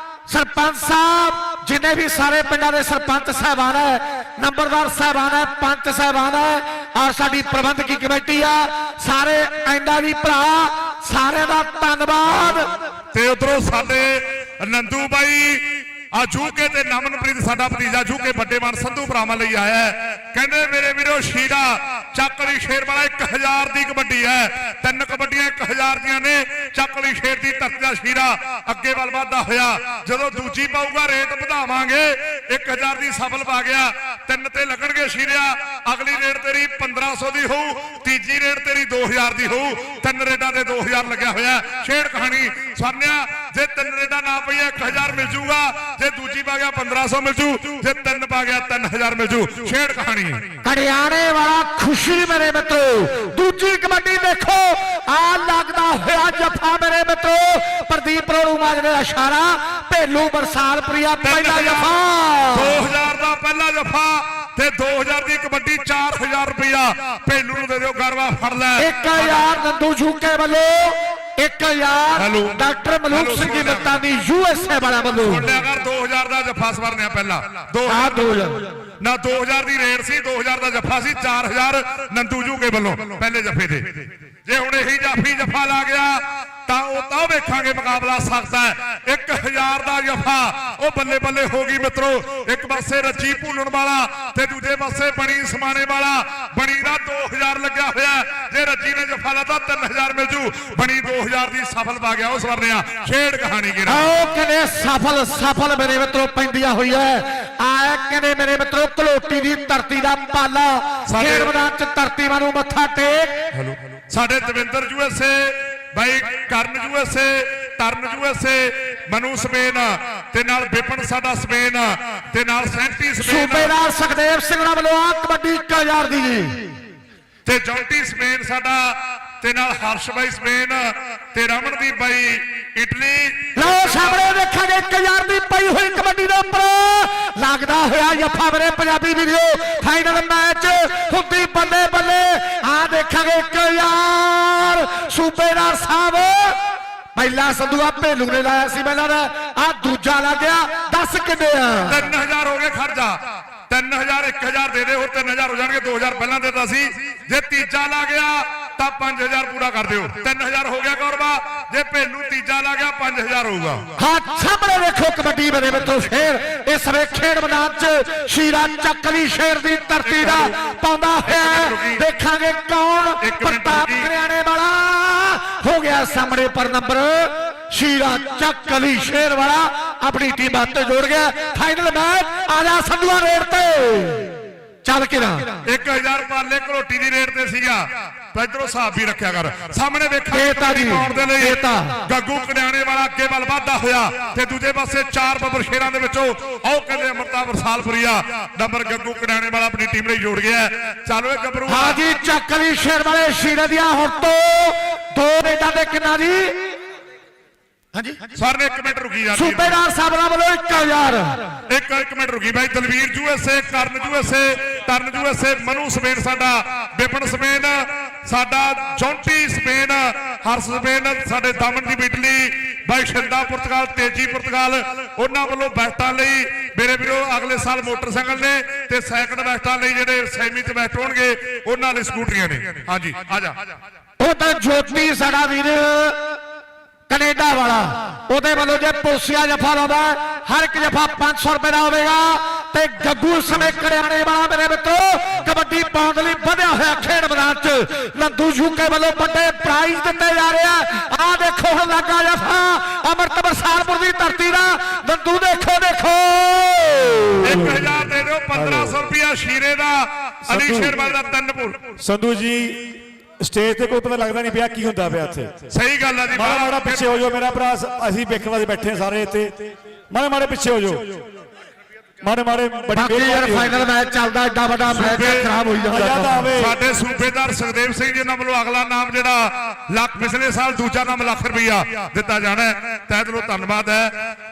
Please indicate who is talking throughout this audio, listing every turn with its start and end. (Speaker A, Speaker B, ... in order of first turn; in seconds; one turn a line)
Speaker A: 0.3-12.7
Speaker B: 13.1-50.5
Speaker A: 50.6-62.8
Speaker B: 61.2-61.9
Speaker B: 62.5-69.5
Speaker A: 68.8-75.5
Speaker B: 72.2-74.0
Speaker B: 75.2-78.2
Speaker A: 77.8-78.7
Speaker B: 79.0-104.1
Speaker A: 103.9-113.5
Speaker B: 111.0-111.5
Speaker B: 113.5-123.7
Speaker A: 123.2-126.8
Speaker B: 127.5-134.2
Speaker A: 133.6-146.6
Speaker A: 147.1-152.1
Speaker B: 151.8-163.9
Speaker A: 164.0-185.6
Speaker B: 170.0-170.5
Speaker B: 171.2-172.0
Speaker B: 173.2-174.1
Speaker B: 185.6-202.0
Speaker A: 190.3-192.0
Speaker A: 201.7-206.8
Speaker A: 207.9-208.2
Speaker B: 208.3-209.8
Speaker A: 209.3-211.5
Speaker B: 211.7-233.6
Speaker A: 234.2-236.4
Speaker A: 237.1-257.8
Speaker B: 257.4-261.9
Speaker C: 257.5-257.8
Speaker C: 258.5-258.9
Speaker C: 260.5-261.0
Speaker C: 262.0-265.7
Speaker B: 265.7-267.1
Speaker C: 266.3-271.3
Speaker C: 272.2-273.8
Speaker A: 272.9-276.5
Speaker B: 274.9-275.5
Speaker C: 275.8-276.8
Speaker B: 276.6-284.1